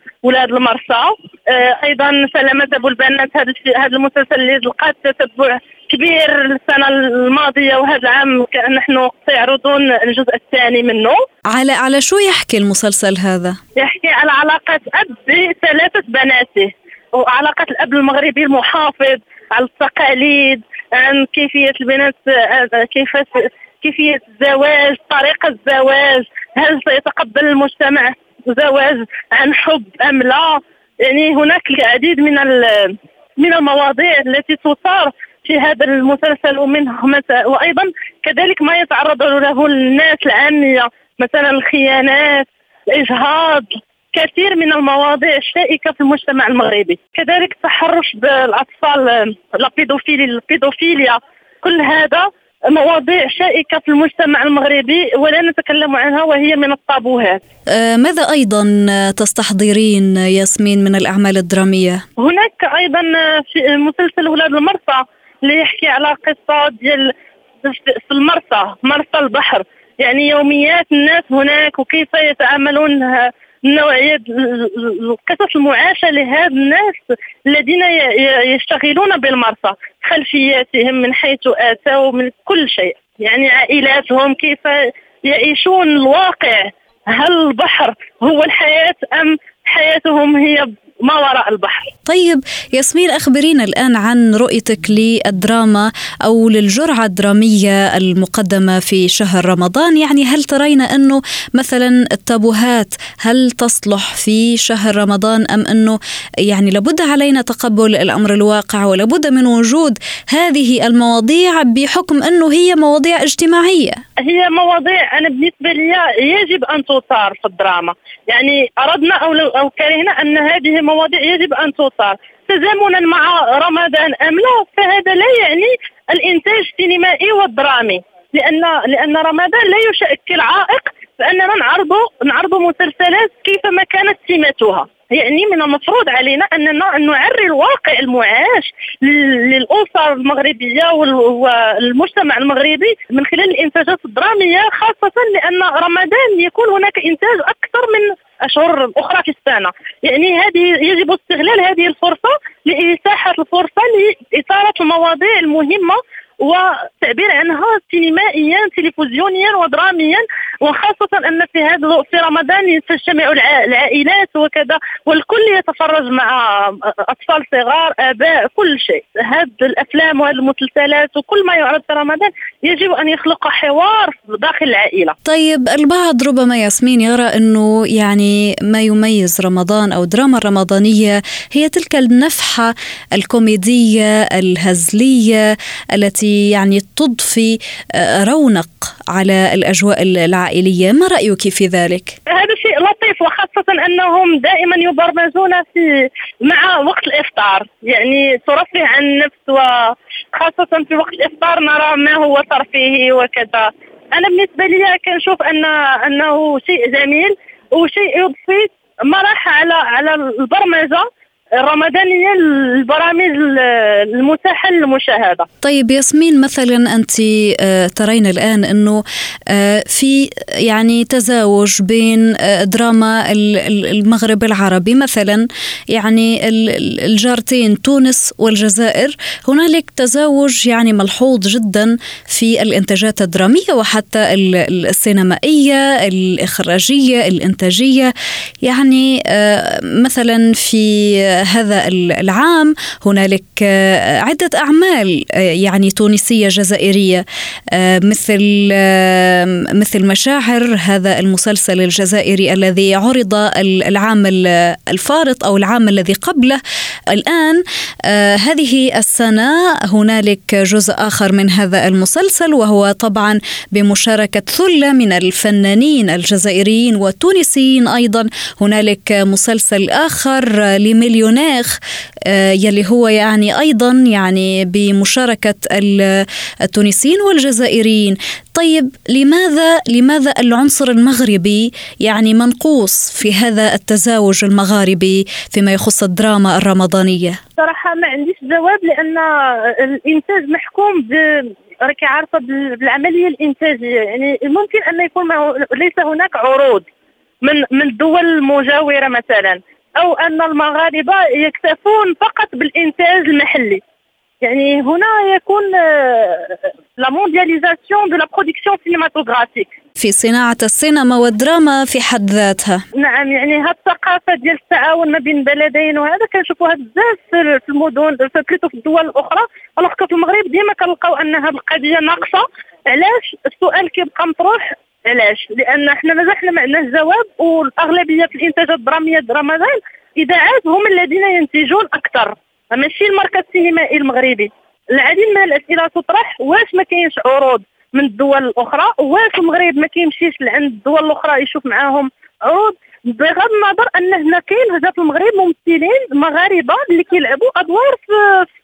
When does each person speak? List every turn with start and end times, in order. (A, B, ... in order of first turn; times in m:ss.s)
0:00.2-0:11.2 A
0:11.5-0:13.6 B
0:13.8-0:57.4 A
0:57.7-1:02.0 B
1:02.2-1:31.9 A
1:32.0-1:54.0 B
1:54.2-2:55.1 A
2:55.2-3:12.2 B
3:12.3-3:31.1 A
3:31.6-3:35.4 A
3:35.6-4:47.4 B
4:47.6-4:56.8 A
4:57.4-5:03.8 A
5:04.4-5:09.7 A
5:10.0-5:12.8 B
5:13.0-5:48.4 A